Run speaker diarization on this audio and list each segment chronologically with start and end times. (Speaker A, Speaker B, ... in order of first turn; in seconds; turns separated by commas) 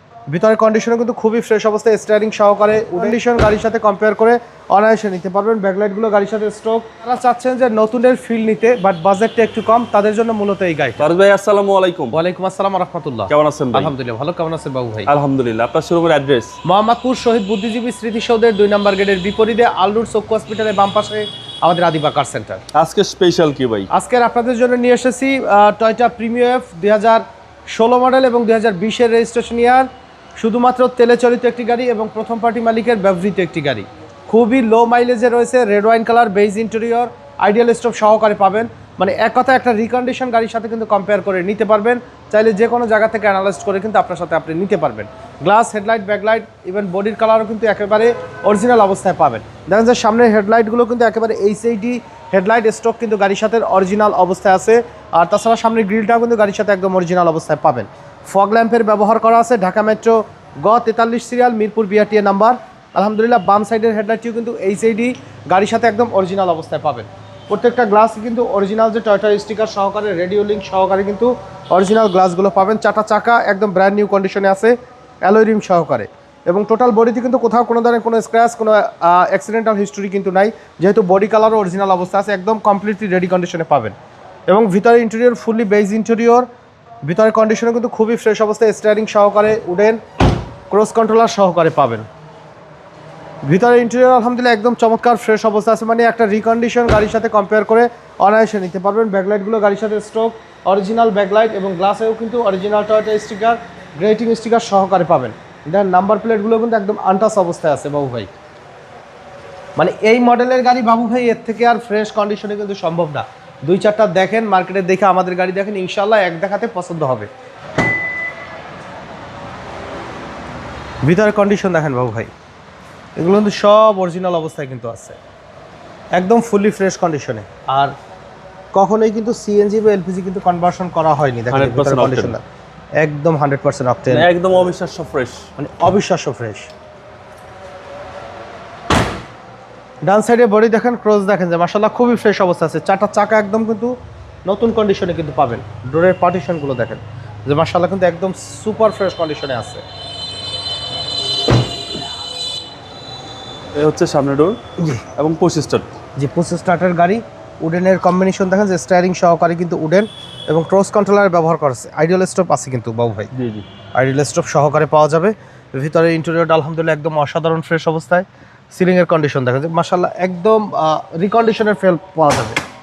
Speaker A: 0.3-11.1, Speaker B: 11.0-12.2, Speaker A: 12.1-15.1, Speaker B: 13.3-13.9, Speaker B: 15.1-16.6, Speaker A: 16.6-22.6, Speaker B: 22.7-23.9, Speaker A: 23.9-83.9, Speaker A: 84.5-86.4, Speaker A: 87.0-90.0, Speaker A: 90.7-92.0, Speaker A: 93.5-108.3, Speaker A: 109.8-117.3, Speaker A: 121.0-122.3, Speaker A: 123.2-125.2, Speaker A: 126.2-127.9, Speaker A: 128.7-132.4, Speaker B: 131.5-132.3, Speaker A: 133.0-134.6, Speaker B: 134.1-135.4, Speaker A: 135.6-136.7, Speaker A: 140.0-143.9, Speaker A: 144.4-149.8, Speaker B: 153.8-154.6, Speaker A: 154.8-155.0, Speaker B: 155.2-155.9, Speaker A: 156.2-163.3, Speaker B: 163.3-163.6, Speaker A: 163.9-172.6